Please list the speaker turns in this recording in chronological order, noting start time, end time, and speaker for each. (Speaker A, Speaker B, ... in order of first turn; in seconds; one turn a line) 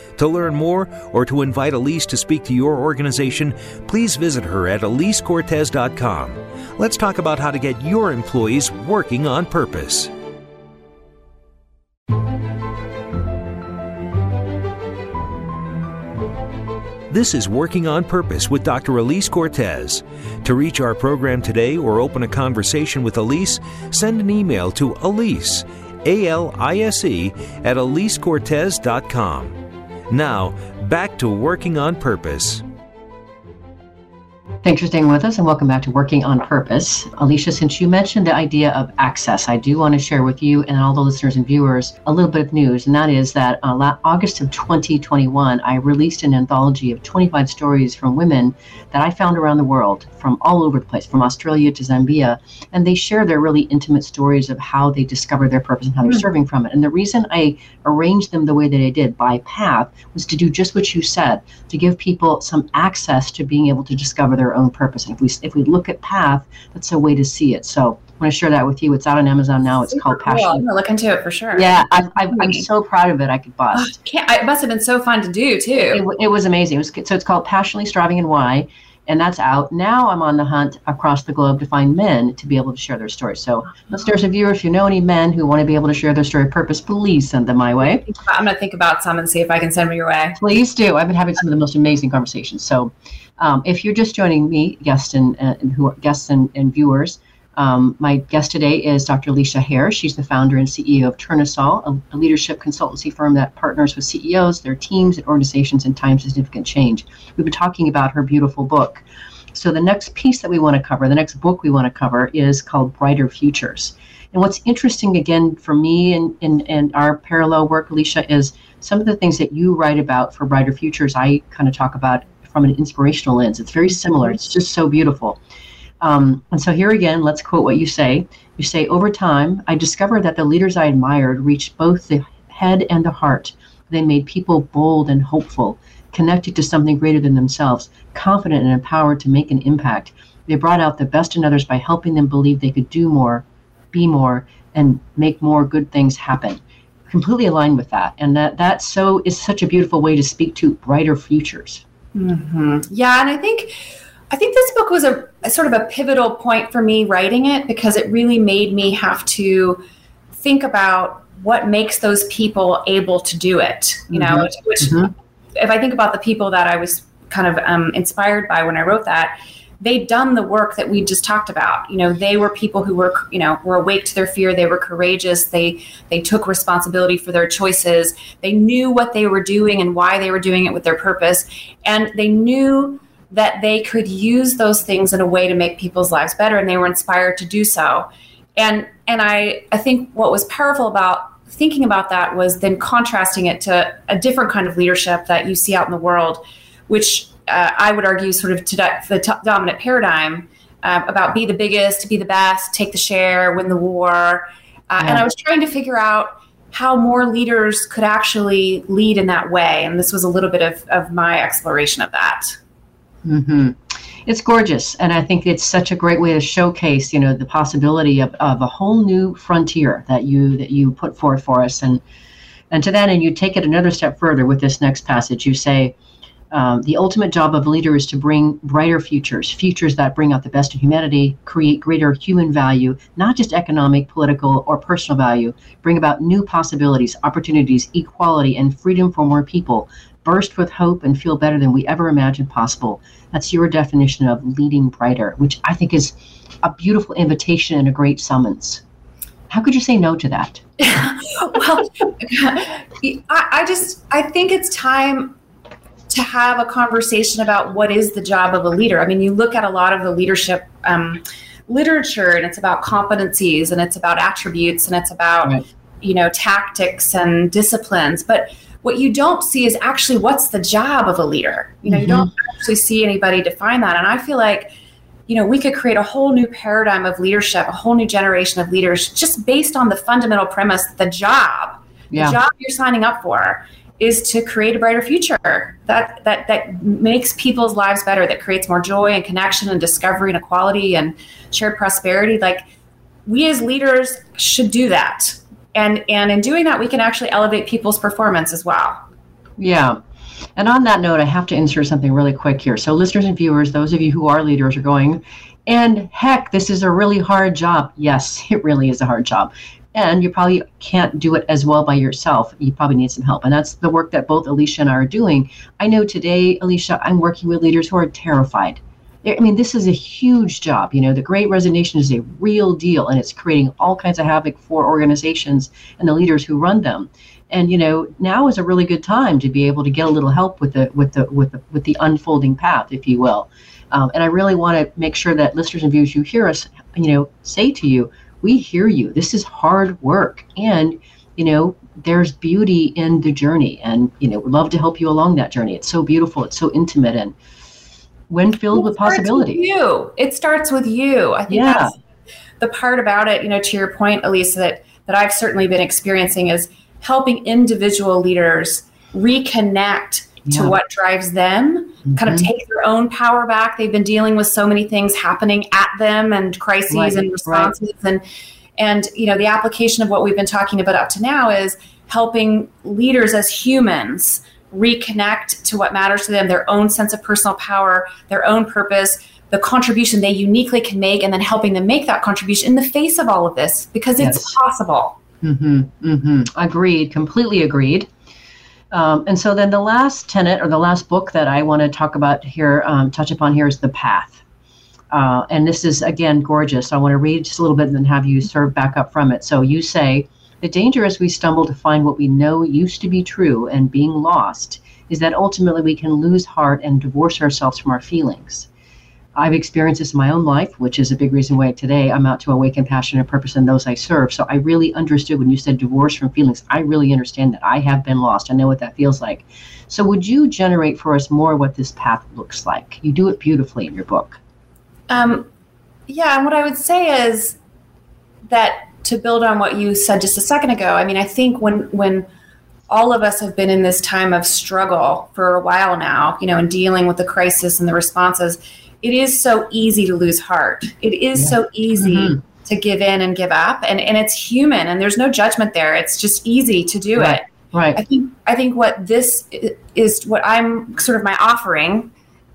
Speaker A: 0.2-10.1
Speaker A: 17.1-29.5
Speaker A: 30.1-32.6
Speaker B: 34.6-70.6
Speaker C: 69.9-72.7
Speaker B: 71.5-73.9
Speaker C: 73.7-76.0
Speaker B: 75.9-88.0
Speaker C: 87.8-90.4
Speaker B: 90.4-125.4
Speaker B: 126.0-151.8
Speaker C: 152.1-159.8
Speaker C: 160.4-212.6
Speaker B: 164.1-165.1
Speaker B: 205.0-205.2
Speaker B: 213.2-222.0
Speaker B: 222.7-225.9
Speaker B: 226.5-248.8
Speaker B: 249.5-250.6
Speaker C: 250.8-255.4
Speaker C: 256.1-274.7
Speaker B: 271.9-272.3
Speaker C: 275.3-292.6
Speaker B: 282.1-282.4
Speaker C: 293.2-299.0
Speaker B: 299.6-300.0
Speaker B: 300.6-347.4
Speaker B: 348.3-349.6
Speaker C: 348.7-351.9
Speaker B: 351.5-351.9
Speaker C: 352.6-368.2
Speaker B: 360.4-360.7
Speaker B: 362.1-362.5
Speaker B: 366.9-367.7
Speaker C: 368.8-385.2
Speaker B: 384.2-384.5
Speaker B: 385.4-388.1
Speaker B: 388.9-394.4
Speaker B: 395.1-408.7
Speaker B: 409.4-424.4
Speaker C: 425.1-425.5
Speaker C: 426.1-427.6
Speaker C: 428.5-432.3
Speaker C: 432.9-452.1
Speaker B: 441.4-442.4
Speaker B: 447.1-448.0